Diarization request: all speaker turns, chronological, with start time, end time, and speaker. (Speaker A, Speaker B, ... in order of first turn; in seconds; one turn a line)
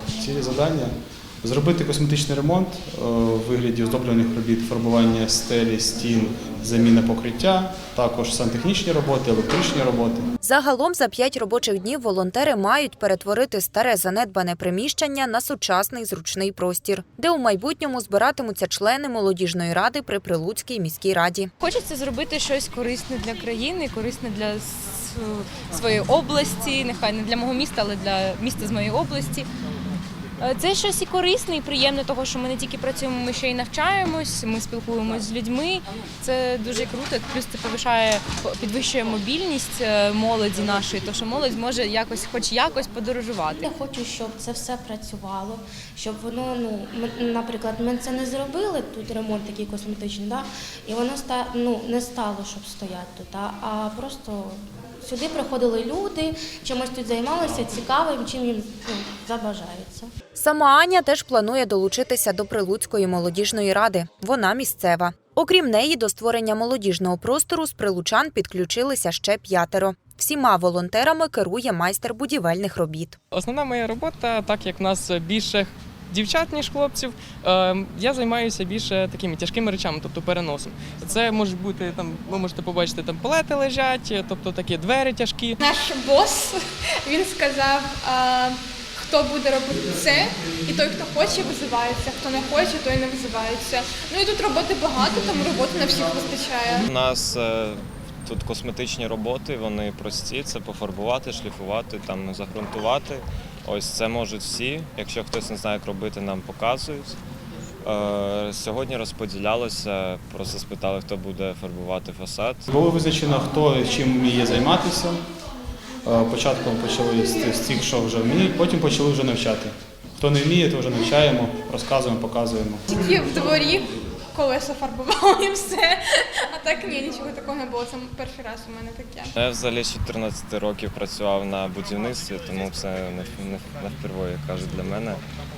Speaker A: 0.1-10.2
Speaker B: 10.4-21.5
Speaker C: 21.6-29.5
Speaker C: 30.4-43.7
Speaker D: 43.6-60.1
Speaker B: 60.3-73.2
Speaker E: 73.3-85.5
Speaker F: 85.6-96.8
Speaker G: 96.8-107.2
Speaker G: 107.8-112.7
Speaker A: 112.7-115.2
Speaker A: 116.0-122.8
Speaker F: 122.9-129.3
Speaker G: 129.3-135.2